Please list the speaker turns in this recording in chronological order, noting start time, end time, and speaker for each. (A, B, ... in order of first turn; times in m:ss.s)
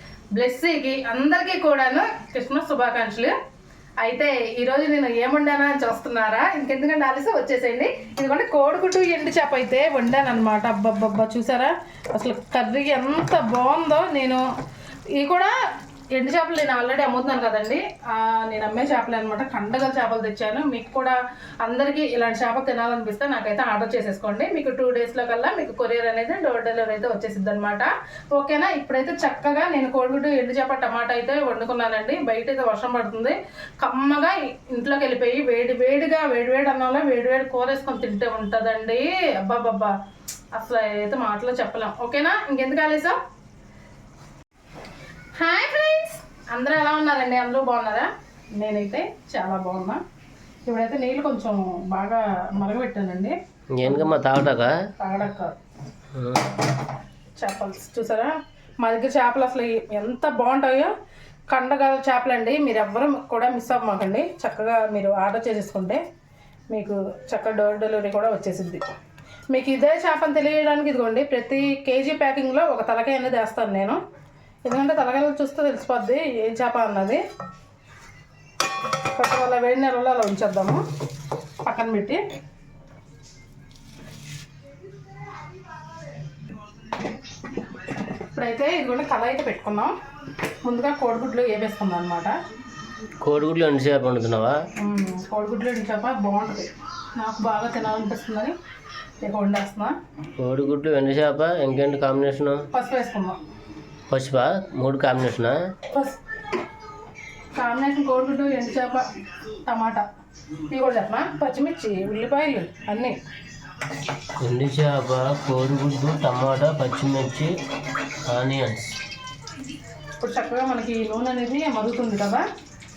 0:00.3-0:03.3 A
0:04.0-0:14.4 A
0:15.1-0:15.6 A
0:16.1-0:39.9 A
0:40.5-0:43.2 A
0:45.4-0:50.0 A
0:50.7-0:54.1 A
0:53.7-0:54.7 B
0:55.0-0:55.6 A
0:56.1-0:56.6 B
0:57.4-1:00.9 A
1:01.5-1:06.0 A
1:06.7-1:08.8 A
1:09.5-1:14.0 A
1:14.6-1:17.2 A
1:19.1-1:20.8 A
1:21.6-1:22.2 A
1:28.3-1:29.9 A
1:30.6-1:32.4 A
1:33.2-1:34.6 B
1:34.8-1:38.6 A
1:39.2-1:40.0 A
1:40.4-1:42.6 B
1:42.7-1:43.4 A
1:44.1-1:45.6 B
1:45.9-1:46.2 A
1:47.5-1:49.1 A
1:49.6-1:50.0 A
1:50.7-1:53.2 A
1:54.4-1:57.5 B
1:58.2-1:58.9 B
2:00.2-2:02.4 A